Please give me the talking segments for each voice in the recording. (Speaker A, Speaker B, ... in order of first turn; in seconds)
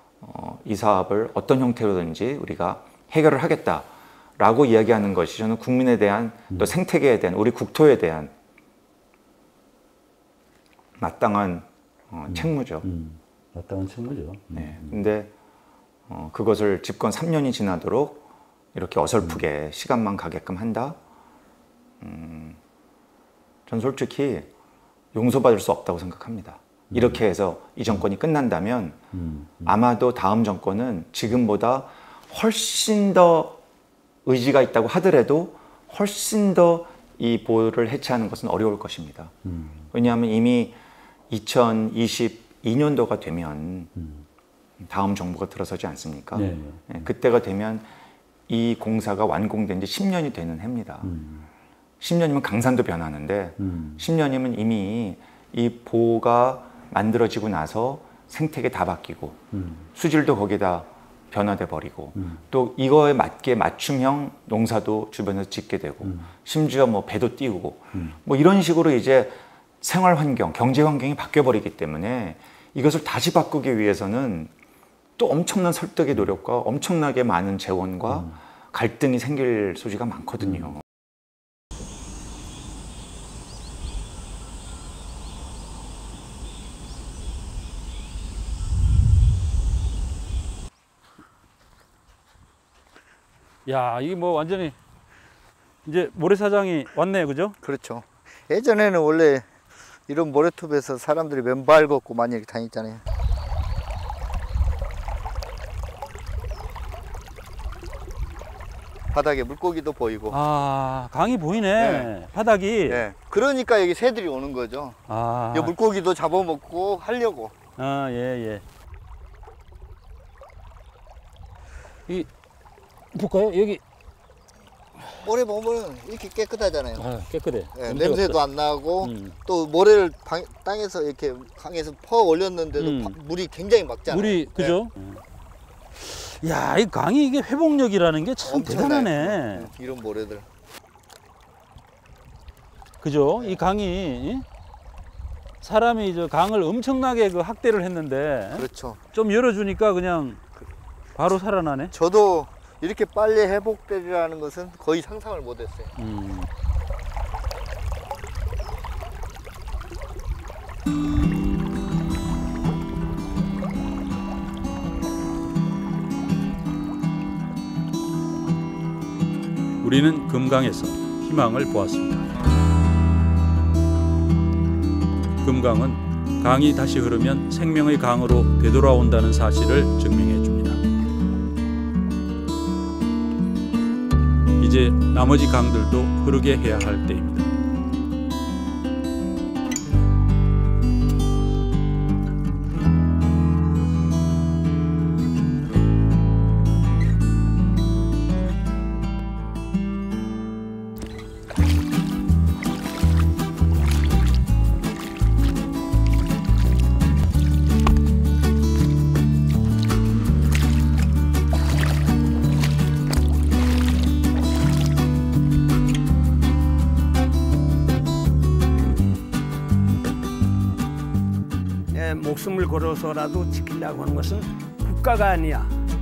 Speaker A: 0.2-8.3, 11.0-12.8, 14.5-15.3, 16.1-21.0, 22.0-22.6, 23.7-24.5, 25.1-29.0, 29.6-33.6, 34.2-39.3, 39.9-40.8, 41.3-43.9, 44.8-47.9, 48.5-51.1, 52.0-59.4, 59.9-74.5, 75.2-80.8
Speaker B: 12.3-15.1, 26.9-27.2, 29.1-29.8, 39.4-39.9, 43.9-44.2, 46.3-47.1, 51.0-51.5, 53.6-54.0, 59.5-59.9, 62.1-62.4, 66.0-66.3, 78.1-78.4, 80.4-80.7, 93.7-94.8, 95.8-97.6, 110.3-113.0, 115.1-115.7, 117.8-118.6, 123.1-123.8, 127.0-128.4, 129.0-129.4, 132.8-133.2, 134.1-135.2, 136.0-139.7, 143.0-144.4, 145.6-150.4, 151.1-151.9, 155.9-156.5, 169.8-172.3, 175.4-180.8, 184.6-187.5
Speaker C: 97.6-99.5, 100.1-103.0, 109.1-110.4, 111.8-112.1, 112.9-115.0, 115.5-117.5, 125.2-127.1, 127.7-134.8, 138.4-140.4, 148.5-149.0, 151.9-155.9
Speaker D: 221.9-225.7